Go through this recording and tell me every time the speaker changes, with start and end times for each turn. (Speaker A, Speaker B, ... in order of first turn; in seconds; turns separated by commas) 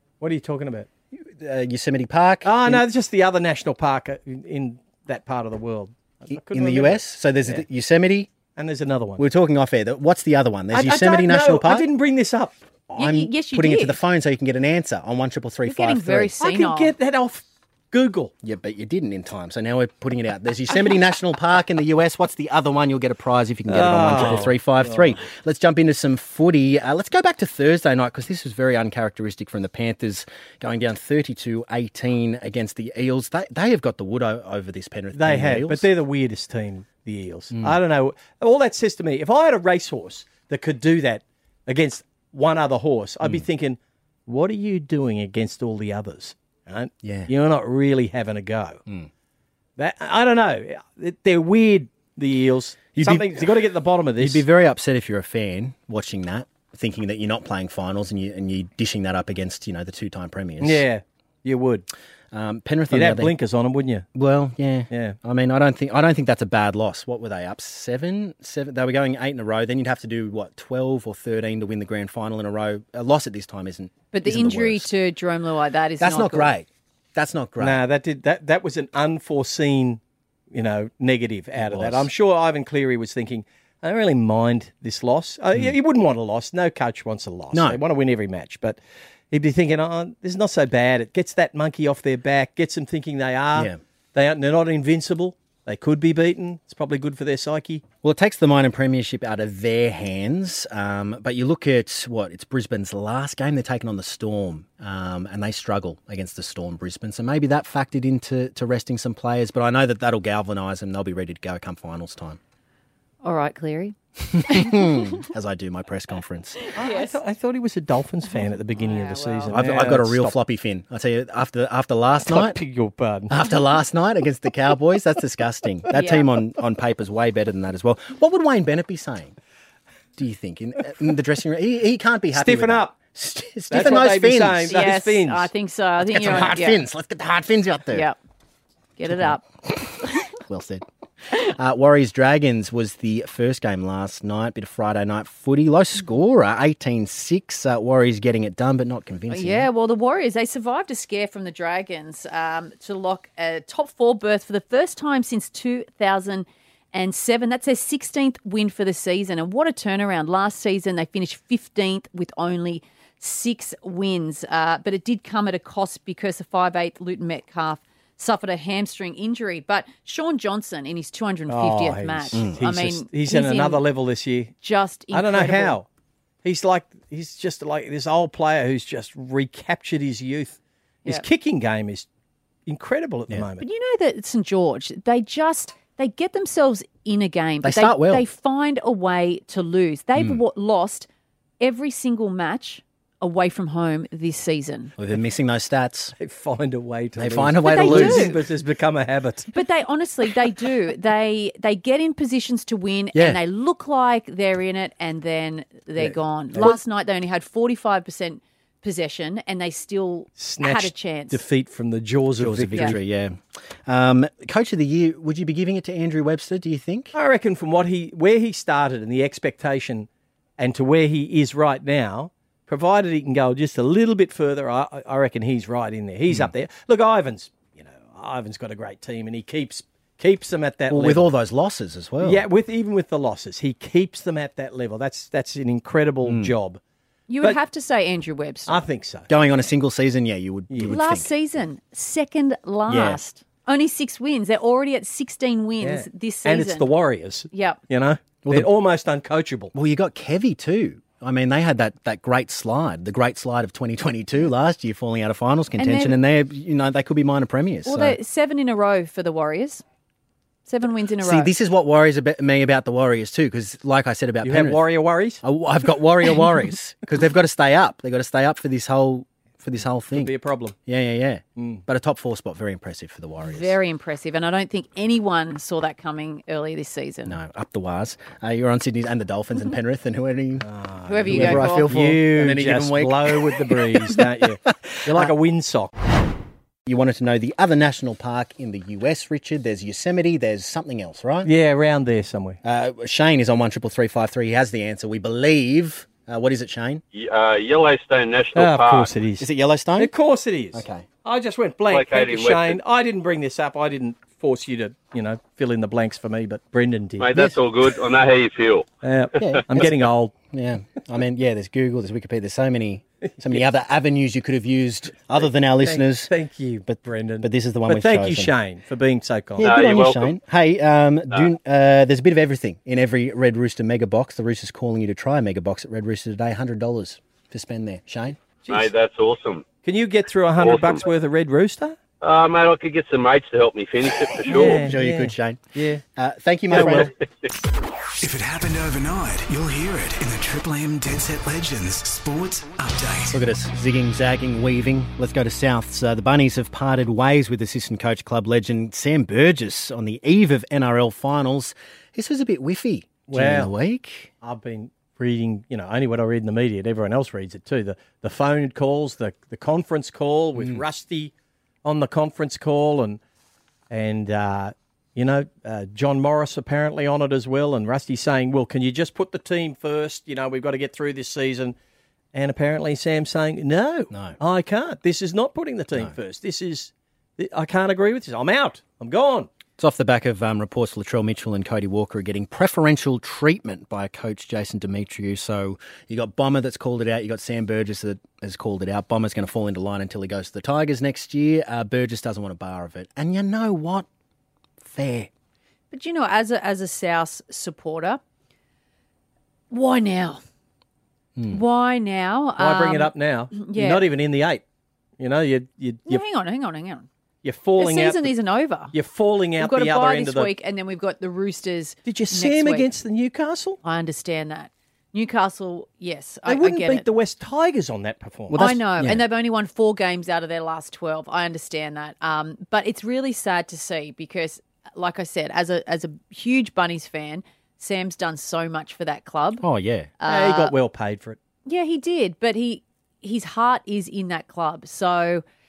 Speaker A: 0.2-0.9, Speaker B: 1.1-2.8, Speaker A: 2.4-7.6, Speaker B: 6.3-8.3, Speaker A: 8.6-9.2, Speaker B: 9.2-11.9, Speaker A: 10.7-12.6, Speaker B: 12.9-16.3, Speaker C: 13.0-14.0, Speaker C: 15.7-16.9, Speaker A: 16.4-18.3, Speaker B: 18.4-35.9, Speaker A: 23.7-25.2, Speaker A: 35.1-48.8, Speaker B: 37.5-37.8, Speaker B: 47.0-47.3, Speaker A: 49.8-54.5, Speaker B: 53.0-53.5, Speaker B: 54.2-60.8, Speaker A: 60.6-61.9, Speaker B: 62.3-63.3, Speaker A: 62.9-64.0, Speaker B: 64.1-74.9, Speaker A: 64.9-65.2, Speaker C: 74.1-76.5, Speaker B: 76.0-77.8, Speaker A: 77.6-88.8, Speaker B: 81.5-82.1, Speaker B: 87.5-87.8, Speaker A: 89.3-97.8, Speaker B: 98.0-112.4, Speaker C: 113.2-115.2, Speaker B: 114.3-116.6, Speaker C: 116.6-117.2, Speaker A: 116.7-120.3, Speaker C: 118.7-119.5, Speaker B: 119.5-122.6, Speaker A: 122.2-123.3, Speaker B: 123.3-129.3, Speaker C: 125.9-126.3, Speaker B: 130.2-134.8, Speaker A: 132.3-132.9, Speaker A: 133.7-135.5, Speaker C: 134.7-136.8, Speaker B: 136.0-138.1, Speaker C: 139.0-139.4, Speaker B: 139.1-149.7, Speaker C: 149.3-173.8, Speaker A: 171.5-174.5, Speaker B: 172.3-172.6, Speaker C: 174.6-175.8, Speaker A: 175.1-175.8, Speaker A: 176.4-182.1, Speaker A: 182.7-183.7, Speaker C: 183.6-191.1, Speaker B: 187.6-188.2, Speaker C: 191.6-194.9, Speaker B: 195.0-196.1, Speaker A: 196.2-199.5, Speaker B: 197.2-198.3, Speaker C: 197.6-198.4, Speaker C: 199.5-211.4, Speaker B: 203.1-203.4, Speaker A: 206.0-206.8, Speaker A: 210.4-213.0, Speaker B: 212.4-217.1, Speaker A: 217.1-231.3, Speaker B: 230.9-232.4, Speaker A: 232.2-236.8, Speaker B: 236.2-236.5, Speaker C: 237.3-238.8, Speaker A: 238.7-239.3, Speaker B: 239.3-241.3, Speaker A: 240.7-241.0, Speaker C: 240.9-246.9, Speaker B: 242.9-243.2, Speaker A: 245.8-249.7, Speaker C: 247.5-247.8, Speaker B: 248.4-248.7, Speaker B: 249.7-258.2, Speaker C: 255.8-256.2, Speaker C: 257.9-259.8, Speaker C: 260.7-261.5, Speaker B: 261.2-264.8, Speaker A: 264.4-265.4, Speaker B: 265.4-270.3, Speaker A: 270.1-270.8, Speaker B: 270.8-273.7, Speaker A: 271.6-271.8, Speaker C: 273.4-277.4, Speaker B: 277.2-280.6, Speaker A: 280.6-285.9, Speaker C: 281.1-281.9, Speaker B: 281.3-284.3, Speaker B: 284.9-285.3, Speaker B: 286.9-291.5, Speaker A: 291.4-292.6, Speaker B: 292.6-297.0, Speaker D: 297.1-299.1, Speaker A: 298.5-307.6, Speaker B: 299.4-300.1, Speaker B: 300.7-301.0, Speaker D: 301.9-302.8, Speaker D: 307.2-308.9, Speaker A: 309.0-310.3, Speaker B: 309.4-310.0, Speaker B: 310.5-316.3, Speaker A: 313.2-313.6, Speaker A: 315.4-319.8, Speaker B: 316.9-318.5, Speaker B: 319.6-328.4, Speaker D: 319.6-320.4, Speaker A: 328.6-328.9, Speaker D: 328.7-329.6, Speaker A: 329.8-332.0, Speaker D: 330.6-331.0, Speaker D: 332.2-334.9, Speaker A: 334.4-336.0, Speaker B: 334.5-335.6, Speaker B: 336.1-337.1, Speaker A: 336.7-337.1, Speaker E: 338.2-343.4, Speaker B: 343.3-354.3, Speaker A: 353.3-353.7, Speaker A: 354.4-361.3, Speaker A: 361.8-363.2, Speaker A: 363.9-371.8, Speaker A: 372.3-379.5, Speaker B: 374.1-374.4, Speaker B: 379.8-394.1, Speaker B: 394.8-395.3, Speaker C: 395.9-398.2, Speaker C: 399.7-400.4, Speaker C: 401.5-404.1, Speaker A: 402.6-404.6, Speaker A: 405.2-406.2, Speaker C: 406.1-407.1, Speaker A: 407.4-408.3, Speaker C: 407.8-408.9, Speaker A: 408.9-410.5, Speaker C: 409.6-412.9, Speaker A: 412.1-413.8, Speaker C: 413.8-417.1, Speaker A: 416.4-418.7, Speaker B: 418.5-419.2, Speaker C: 418.6-429.6, Speaker B: 429.6-430.1, Speaker C: 430.2-430.7, Speaker A: 430.2-431.4, Speaker C: 431.6-435.4